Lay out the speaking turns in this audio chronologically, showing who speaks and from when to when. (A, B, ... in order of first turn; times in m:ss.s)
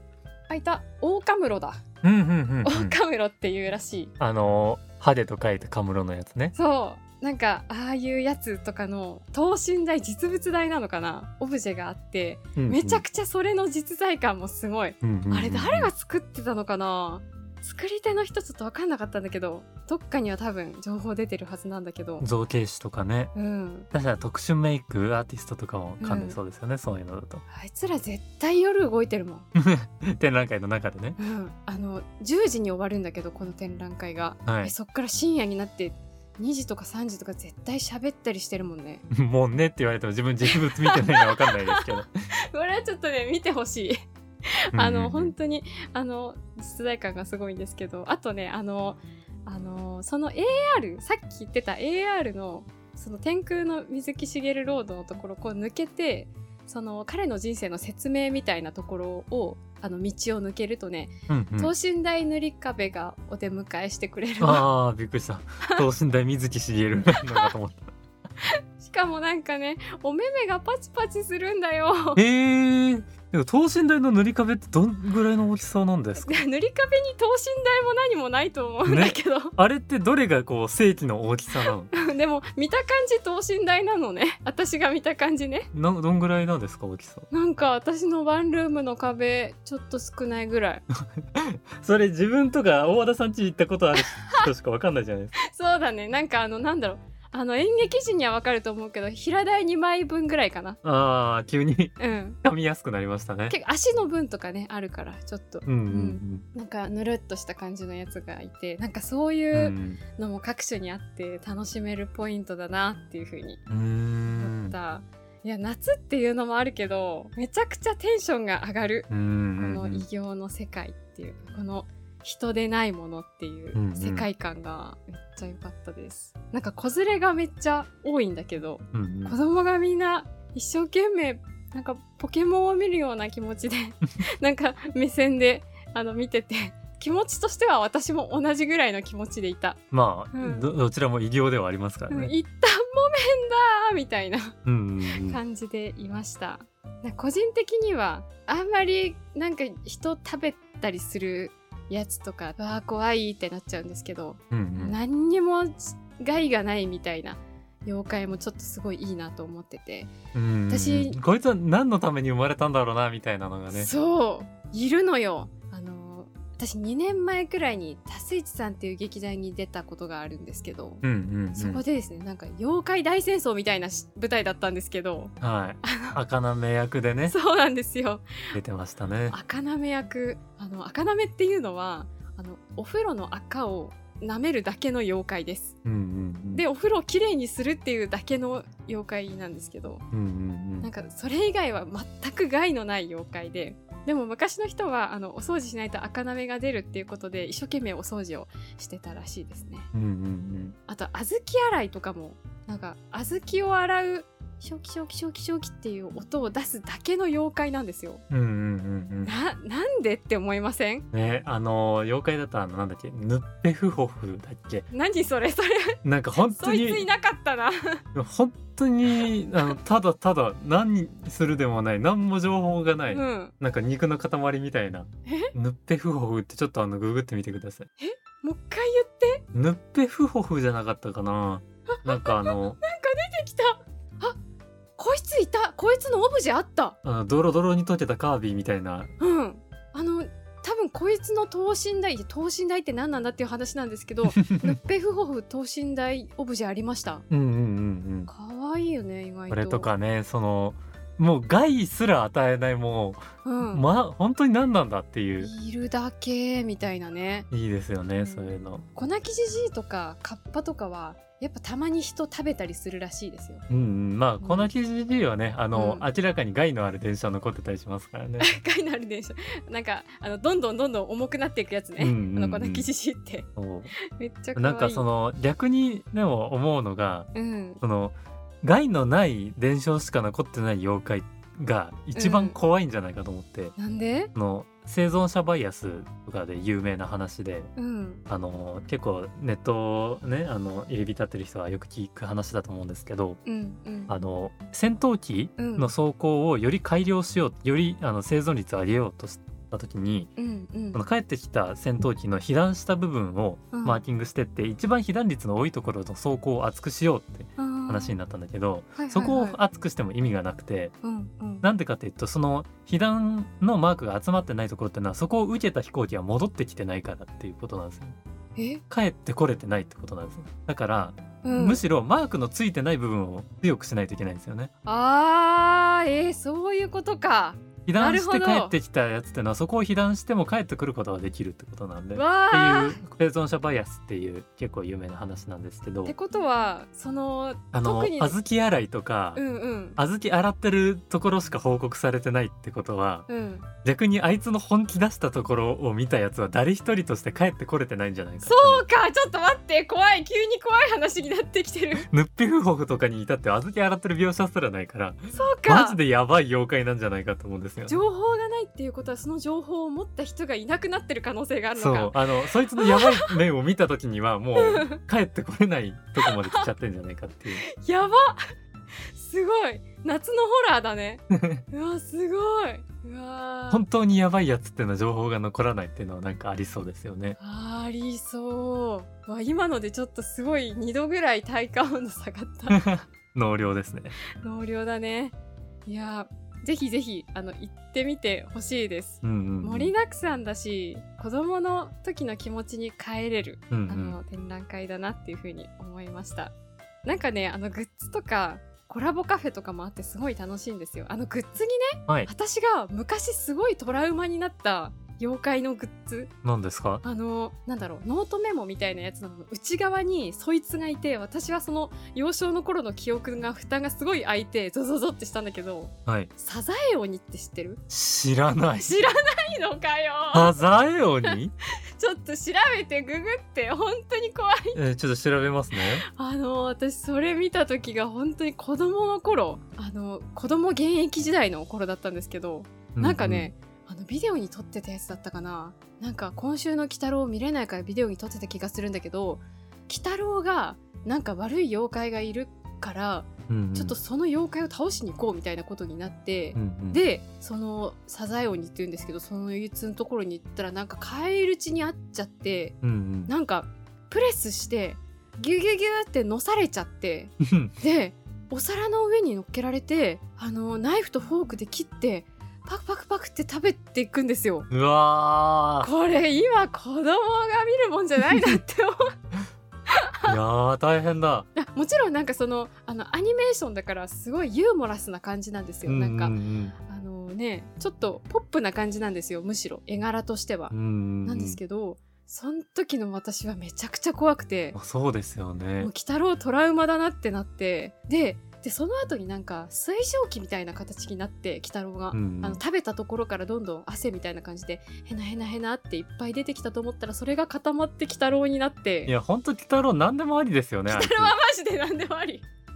0:00.5-0:01.8 A
0:02.0-0:03.0 B
0:02.6-0:04.1 A
0:04.2-0:06.5 B
0:06.6-0:22.2 A
0:12.6-0:13.0 B
0:15.0-0:15.9 B
0:22.2-0:23.3 B
0:23.3-0:23.9 A
0:23.9-0:27.4 B
0:26.0-0:26.4 A
0:27.5-0:29.5 A
0:29.5-0:31.2 B
0:31.2-0:39.0 A
0:34.4-0:34.7 B
0:39.1-0:42.1 B
0:40.4-0:44.0 A
0:44.7-1:04.7 A
0:44.7-0:45.3 B
1:01.3-1:01.7 B
1:04.4-1:07.9 B
1:07.1-1:07.5 A
1:08.4-1:12.2 A
1:12.2-1:16.4 B
1:16.2-1:19.5 A
1:18.8-1:21.9 B
1:21.6-1:25.7 A
1:25.7-1:27.3 B
1:27.3-1:30.8 A
1:31.2-1:35.4 B
1:34.0-1:34.5 A
1:35.4-1:40.8 A
1:40.8-1:43.6 B
1:42.0-1:42.4 A
1:43.5-1:53.6 A
1:45.6-1:46.4 B
1:49.5-1:50.0 B
1:53.7-1:54.7 B
1:54.2-2:19.8 A
1:59.1-2:00.0 B
2:03.7-2:04.3 B
2:08.9-2:09.4 B
2:19.9-2:22.3 B
2:20.3-2:20.7 A
2:22.1-2:24.6 A
2:24.6-2:25.4 B
2:25.1-2:40.1 A
2:34.5-2:35.0 B
2:40.3-2:43.9 B
2:40.7-2:41.2 A
2:43.7-2:56.2 A
2:51.0-2:51.8 B
2:55.4-2:57.3 B
2:57.3-2:58.2 A
2:58.5-2:59.4 B
2:59.3-3:05.8 A
3:05.8-3:06.6 B
3:06.5-3:10.0 A
3:10.1-3:10.9 B
3:10.8-3:19.9 A
3:19.9-3:20.8 B
3:20.9-3:28.2 A
3:28.3-3:29.3 B
3:29.2-3:31.0 A
3:31.1-3:34.9 B
3:34.9-3:38.0 A
3:36.0-3:37.1 B
3:38.1-3:47.9 B
3:43.1-3:43.5 A
3:45.2-3:45.5 A
3:48.0-3:49.4 A
3:49.5-3:52.8 B
3:51.9-3:54.4 A
3:55.0-3:57.0 A
3:57.0-3:59.1 B
3:59.2-4:07.2 A
4:04.3-4:04.8 B
4:07.3-4:08.3 B
4:08.3-4:09.9 A
4:09.5-4:15.5 B
4:13.4-4:13.8 A
4:15.4-4:17.5 A
4:17.5-4:18.8 B
4:18.2-4:23.6 A
4:23.7-4:28.5 B
4:24.4-4:24.7 A
4:25.7-4:26.0 A
4:28.4-4:33.5 A
4:32.0-4:32.9 B
4:33.6-4:33.9 B
4:34.1-4:35.0 A
4:34.6-4:37.3 B
4:37.3-4:37.8 A
4:37.8-4:43.7 B
4:42.1-4:42.6 A
4:43.8-4:44.3 A
4:44.3-4:47.7 B
4:47.8-4:48.2 A
4:48.3-4:53.4 B
4:53.4-4:54.1 A
4:54.1-5:00.3 B
4:55.6-4:55.9 A
5:00.4-5:01.0 A
5:00.9-5:10.9 B
5:03.7-5:04.0 A
5:07.6-5:08.2 A
5:09.0-5:09.6 A
5:11.0-5:11.7 A
5:11.6-5:18.2 B
5:18.6-5:18.8 A
5:18.9-5:24.7 B
5:21.4-5:21.8 A
5:24.8-5:28.7 A
5:27.8-5:36.1 B
5:32.1-5:33.0 A
5:36.0-5:38.4 A
5:37.7-5:39.4 B
5:39.4-5:40.0 A
5:40.0-5:43.3 B
5:43.3-5:43.7 A
5:43.8-5:48.8 B
5:48.4-5:52.1 A
5:52.0-5:58.0 B
5:55.3-5:56.0 A
5:57.9-6:03.4 A
6:01.8-6:07.6 B
6:04.6-6:05.0 A
6:06.2-6:06.7 A
6:07.6-6:08.5 A
6:09.1-6:13.8 A
6:11.3-6:11.6 B
6:13.7-6:17.4 B
6:17.4-6:22.8 A
6:22.7-6:24.2 B
6:24.4-6:25.3 A
6:25.9-6:36.5 A
6:29.2-6:29.9 B
6:33.7-6:34.2 B
6:37.0-6:46.3 A
6:46.4-6:47.0 B
6:47.0-6:57.8 A
6:57.9-6:59.0 B
6:58.8-7:00.6 A
7:00.3-7:01.5 B
7:02.0-7:04.8 A
7:04.7-7:06.0 B
7:05.7-7:32.8 A
7:12.9-7:13.5 B
7:23.5-7:23.9 B
7:26.6-7:27.0 B
7:32.8-7:33.3 B
7:33.3-7:44.7 A
7:37.4-7:37.7 B
7:44.7-7:45.9 B
7:45.8-7:49.1 A
7:49.9-7:50.4 A
7:50.3-7:51.5 B
7:51.5-8:00.7 A
7:55.8-7:56.7 B
8:00.7-8:01.6 B
8:01.2-8:04.8 A
8:04.7-8:05.9 B
8:05.8-8:19.1 A
8:12.1-8:12.6 B
8:19.1-8:21.3 B
8:20.9-8:22.4 A